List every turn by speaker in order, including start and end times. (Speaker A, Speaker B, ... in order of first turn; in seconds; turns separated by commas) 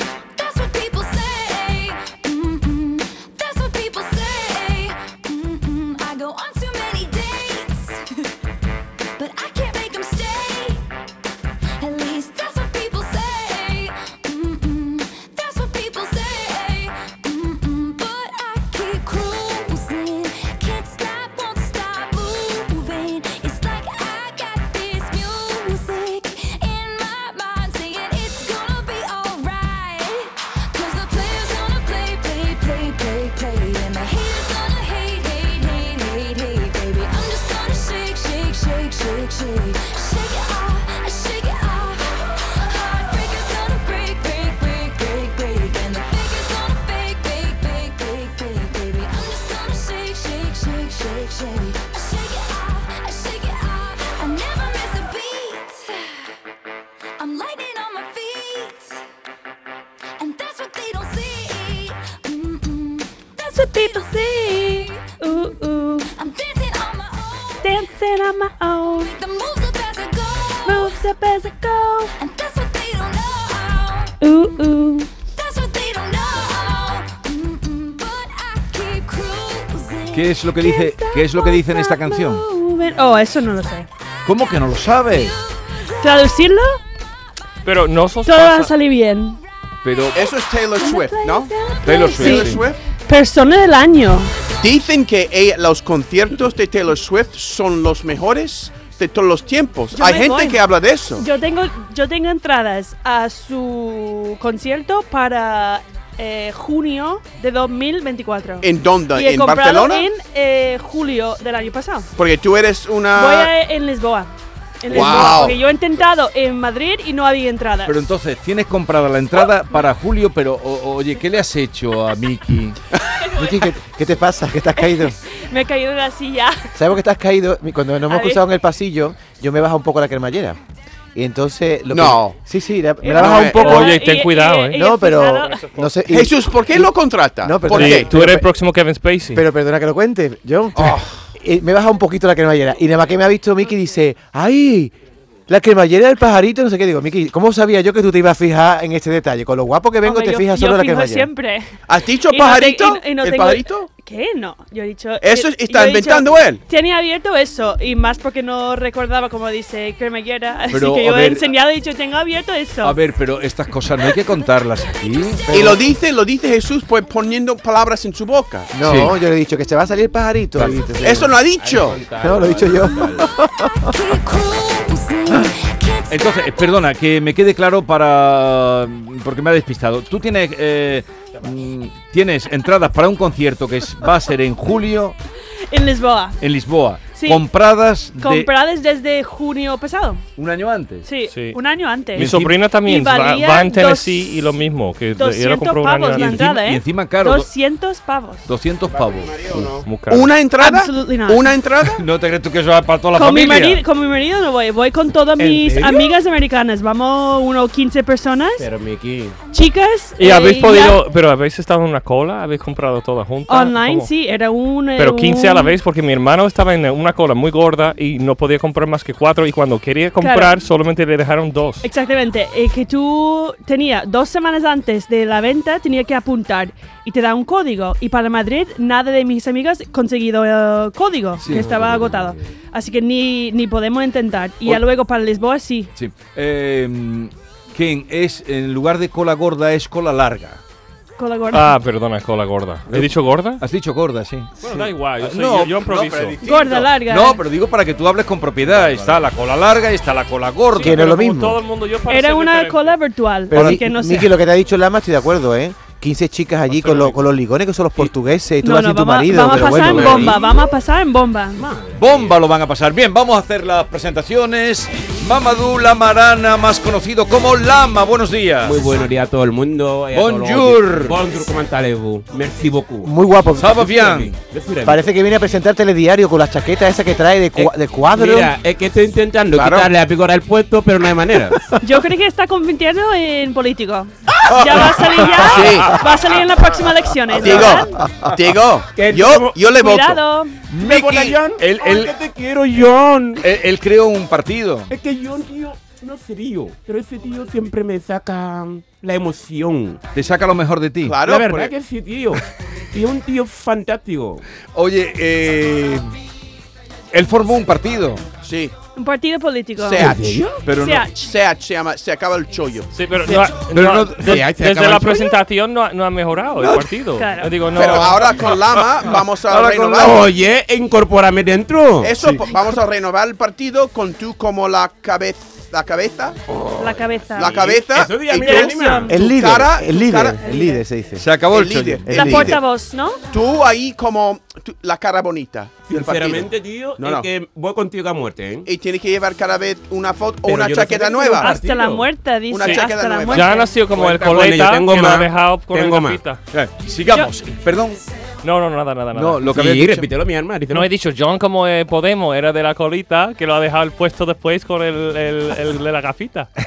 Speaker A: 0.3-8.3, Speaker A: 9.2-10.8, Speaker A: 11.8-56.2, Speaker A: 57.2-59.0, Speaker A: 60.2-67.9, Speaker B: 63.4-66.1, Speaker B: 67.6-69.1, Speaker A: 68.9-71.1, Speaker B: 70.6-72.1, Speaker A: 72.2-74.4, Speaker B: 74.2-75.1, Speaker A: 75.3-80.7, Speaker C: 80.1-82.4, Speaker B: 80.6-83.9, Speaker C: 84.2-85.4, Speaker A: 84.2-86.5, Speaker B: 86.0-86.8, Speaker D: 87.6-88.7, Speaker B: 88.2-89.4, Speaker C: 89.8-90.3, Speaker E: 90.1-91.5, Speaker B: 90.8-94.3, Speaker A: 91.0-92.4, Speaker C: 91.8-92.7, Speaker E: 92.2-92.8, Speaker E: 94.6-101.2, Speaker B: 99.9-100.6, Speaker B: 101.2-112.1, Speaker E: 108.6-110.1, Speaker E: 112.2-113.5, Speaker B: 113.1-118.0, Speaker E: 114.9-115.6, Speaker C: 117.8-122.8, Speaker B: 123.2-123.6, Speaker F: 123.4-125.2, Speaker B: 124.8-126.7, Speaker F: 126.7-130.6, Speaker B: 128.1-128.4, Speaker F: 131.1-133.9, Speaker E: 131.9-132.4, Speaker B: 133.0-135.6, Speaker E: 133.1-133.9, Speaker D: 133.5-134.8, Speaker F: 134.7-138.5, Speaker D: 135.5-135.9, Speaker E: 136.1-138.1, Speaker D: 137.7-139.4, Speaker F: 139.3-144.9, Speaker E: 140.8-141.2, Speaker F: 145.5-151.3, Speaker B: 150.0-151.7, Speaker E: 151.9-153.9, Speaker B: 152.3-163.0, Speaker E: 155.2-156.6, Speaker C: 160.7-161.5, Speaker C: 162.8-165.5, Speaker F: 165.4-165.8, Speaker E: 165.5-168.7, Speaker F: 168.7-171.4, Speaker C: 168.8-169.2, Speaker C: 170.6-170.8, Speaker E: 171.0-172.0, Speaker G: 171.6-173.3, Speaker F: 172.2-174.0, Speaker A: 173.8-176.7, Speaker C: 176.1-185.1, Speaker B: 185.7-186.4, Speaker C: 186.4-188.5, Speaker B: 187.1-187.4, Speaker B: 188.2-190.2, Speaker C: 190.4-191.1, Speaker B: 191.0-192.3, Speaker D: 191.3-191.6, Speaker D: 192.1-196.4, Speaker C: 192.2-192.6, Speaker B: 192.8-194.3, Speaker B: 195.2-198.5, Speaker C: 196.1-197.5, Speaker C: 198.5-199.7, Speaker G: 198.9-199.9, Speaker D: 199.8-200.3, Speaker E: 200.1-202.0, Speaker B: 200.6-201.5, Speaker C: 201.9-203.8, Speaker B: 203.1-208.7, Speaker G: 205.4-206.2, Speaker G: 208.6-209.4, Speaker B: 209.5-211.0, Speaker D: 210.2-214.1, Speaker B: 213.5-215.8, Speaker D: 215.0-221.8, Speaker B: 220.2-220.5, Speaker B: 221.8-235.9, Speaker C: 231.4-232.1, Speaker G: 231.5-232.5, Speaker C: 235.9-240.6, Speaker B: 241.2-241.7, Speaker D: 241.5-243.6, Speaker C: 242.9-244.5, Speaker D: 244.6-246.4, Speaker C: 245.2-251.1, Speaker B: 246.4-247.4, Speaker G: 248.7-249.2, Speaker D: 250.7-252.9, Speaker F: 250.8-251.6, Speaker B: 252.1-254.3, Speaker F: 253.5-260.3, Speaker C: 253.5-253.8, Speaker D: 256.7-257.2, Speaker B: 258.6-261.6, Speaker C: 259.5-260.3, Speaker G: 259.5-260.6, Speaker G: 261.5-262.4, Speaker C: 261.9-269.1, Speaker G: 268.6-273.1, Speaker C: 270.1-271.2, Speaker F: 273.0-273.9, Speaker C: 273.5-274.4, Speaker G: 273.7-275.1, Speaker F: 274.8-278.5, Speaker G: 277.6-281.6, Speaker E: 279.5-279.9, Speaker B: 281.8-288.0, Speaker E: 285.1-286.0, Speaker E: 287.4-291.4, Speaker F: 288.0-288.3, Speaker G: 288.9-289.6, Speaker B: 289.6-290.6, Speaker G: 290.8-293.4, Speaker C: 291.6-292.1, Speaker C: 293.4-294.9, Speaker G: 294.9-300.0, Speaker C: 300.1-301.2, Speaker E: 301.0-301.7, Speaker G: 301.2-304.4, Speaker C: 304.7-306.1, Speaker C: 307.1-308.2, Speaker E: 308.4-308.7, Speaker B: 308.9-310.1, Speaker E: 309.8-313.5, Speaker G: 309.9-310.6, Speaker C: 310.6-311.1, Speaker B: 310.7-311.1, Speaker D: 312.9-318.4, Speaker C: 313.6-314.4, Speaker G: 314.2-315.4, Speaker B: 317.2-317.5, Speaker E: 317.7-320.3, Speaker C: 318.5-320.1, Speaker G: 320.0-322.1, Speaker E: 322.0-326.4, Speaker G: 326.5-329.2, Speaker B: 326.8-327.6, Speaker E: 327.4-330.4, Speaker B: 328.4-329.1, Speaker F: 329.1-331.2, Speaker B: 330.4-330.8, Speaker C: 331.2-332.5, Speaker E: 331.4-332.6, Speaker F: 332.0-332.6, Speaker B: 332.1-333.2, Speaker E: 333.3-337.3, Speaker G: 335.9-338.7, Speaker E: 338.6-341.6, Speaker G: 340.4-342.1, Speaker B: 341.4-343.7, Speaker E: 342.5-343.6, Speaker D: 342.6-346.4, Speaker G: 343.9-346.2, Speaker C: 346.5-348.0, Speaker D: 348.4-349.6, Speaker C: 349.1-350.1, Speaker G: 349.4-350.9, Speaker D: 350.7-356.5